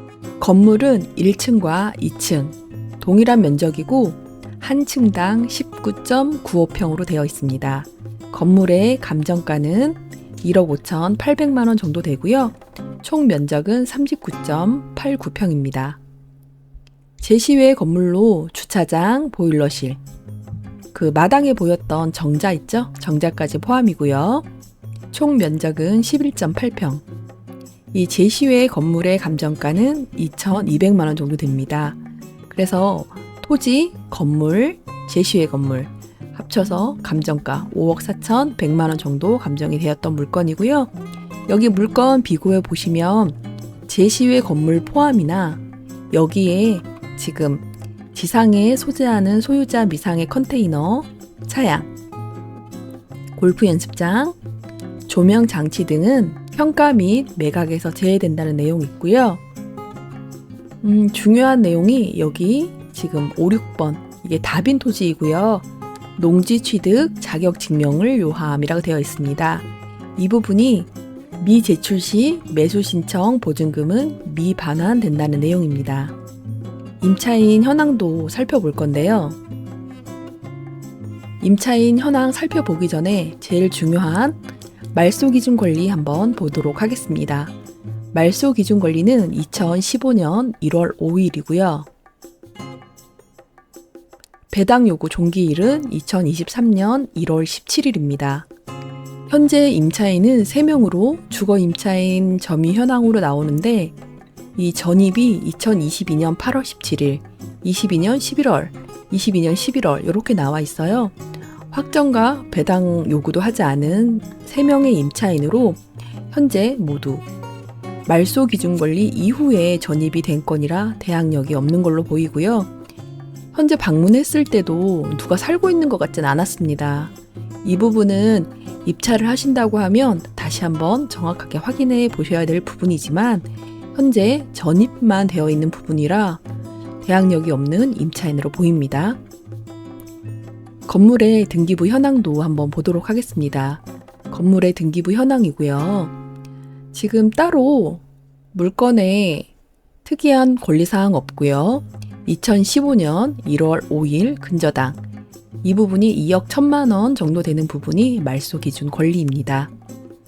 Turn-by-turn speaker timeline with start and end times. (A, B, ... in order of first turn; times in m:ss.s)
0:00.4-0:16.0 A
0:17.2-0:20.0 A
0:20.9-0:24.5 A
0:25.1-0:27.0 A
0:27.9-0:40.9 A
0:41.5-0:51.9 A
0:53.4-0:54.4 A
0:55.1-0:59.4 A
1:00.8-1:16.2 A
1:17.0-1:19.4 A
1:21.4-1:24.4 A
1:24.9-1:27.5 A
1:28.1-1:31.9 A
1:34.5-1:38.5 A
1:39.3-1:44.0 A
1:44.6-1:51.2 A
1:51.7-1:57.2 A
1:58.1-2:02.7 A
2:03.5-2:07.1 A
2:07.6-2:16.4 A
2:17.0-2:19.2 A
2:20.9-2:26.1 A
2:26.9-2:28.0 A
2:28.5-2:29.5 A
2:30.0-2:35.0 A
2:35.6-2:39.7 A